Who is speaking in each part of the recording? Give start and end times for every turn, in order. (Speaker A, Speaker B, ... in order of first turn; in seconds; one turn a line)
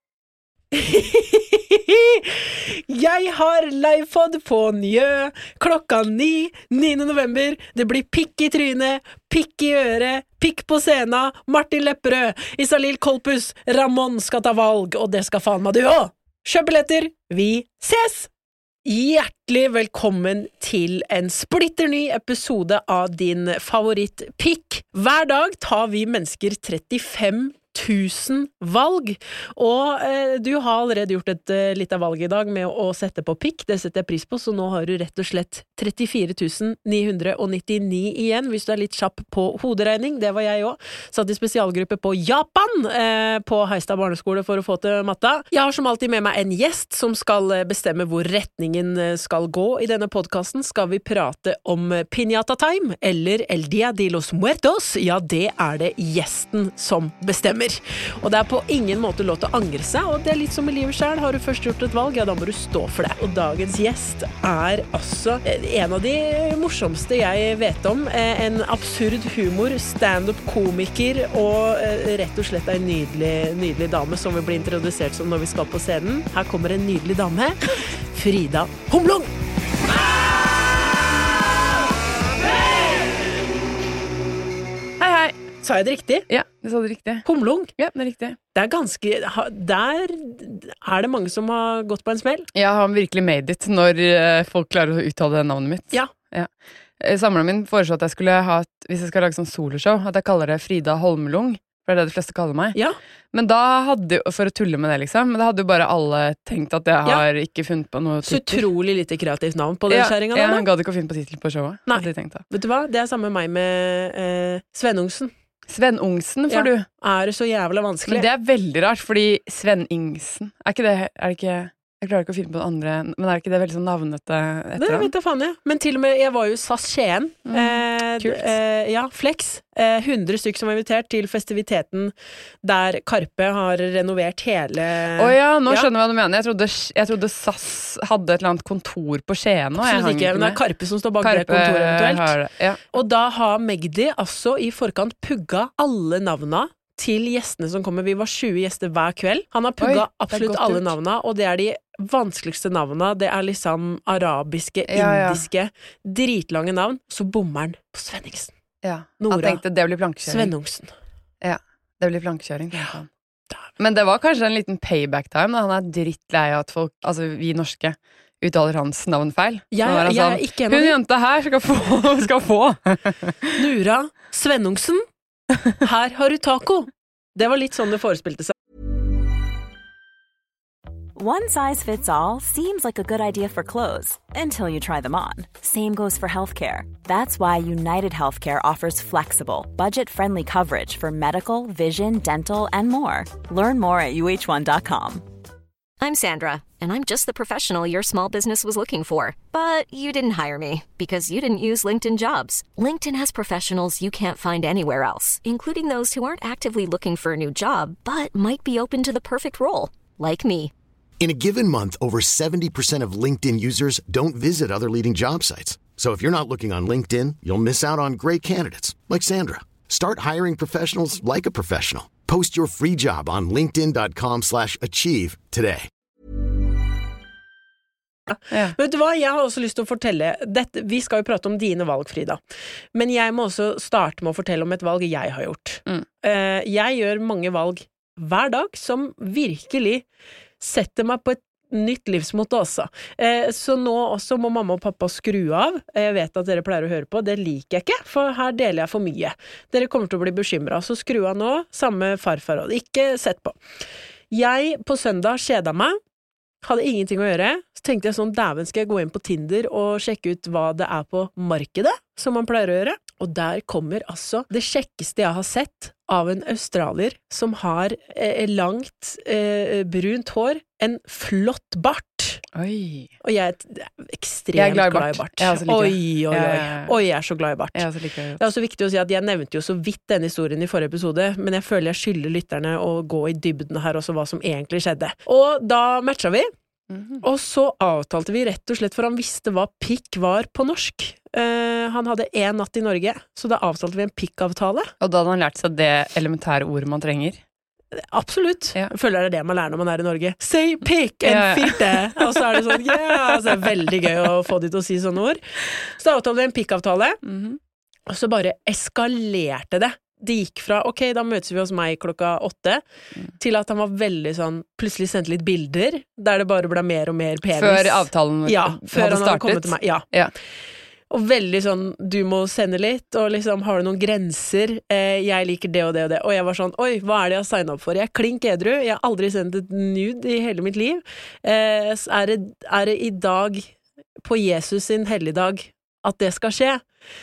Speaker A: 0.7-18.3
Speaker A: 18.9-79.3
Speaker B: 85.0-85.4
Speaker A: 85.6-86.3
Speaker B: 86.3-87.3
Speaker A: 87.2-87.7
Speaker B: 87.8-88.4
Speaker A: 88.5-92.5
Speaker B: 92.5-96.5
Speaker B: 97.0-102.8
Speaker B: 103.3-108.7
Speaker A: 108.2-110.7
Speaker B: 109.9-112.4
Speaker A: 111.9-115.3
Speaker B: 115.7-116.9
Speaker A: 116.5-118.3
Speaker B: 118.1-125.1
Speaker A: 124.8-135.9
Speaker B: 127.5-128.5
Speaker B: 135.2-140.6
Speaker A: 139.8-142.3
Speaker B: 141.2-142.8
Speaker A: 142.9-158.5
Speaker B: 149.8-150.9
Speaker B: 154.9-155.4
Speaker B: 158.8-160.5
Speaker A: 159.2-159.6
Speaker A: 160.3-160.9
Speaker B: 161.4-163.1
Speaker B: 163.8-173.6
Speaker A: 169.7-171.0
Speaker A: 173.6-175.1
Speaker A: 175.8-178.5
Speaker C: 181.2-195.3
Speaker D: 196.0-210.7
Speaker E: 211.2-225.9
Speaker A: 228.3-232.4
Speaker B: 228.5-228.8
Speaker A: 232.9-240.1
Speaker A: 240.6-253.6
Speaker A: 254.3-256.0
Speaker A: 256.6-272.4
Speaker B: 272.5-273.1
Speaker A: 273.2-277.9
Speaker B: 274.6-276.9
Speaker B: 277.8-278.4
Speaker A: 278.4-286.5
Speaker B: 286.9-287.2
Speaker A: 287.2-294.9
Speaker B: 295.0-297.4
Speaker A: 297.9-307.2
Speaker B: 301.2-303.7
Speaker B: 307.2-307.6
Speaker A: 308.1-312.8
Speaker A: 313.4-320.1
Speaker B: 317.6-320.3
Speaker A: 321.1-336.8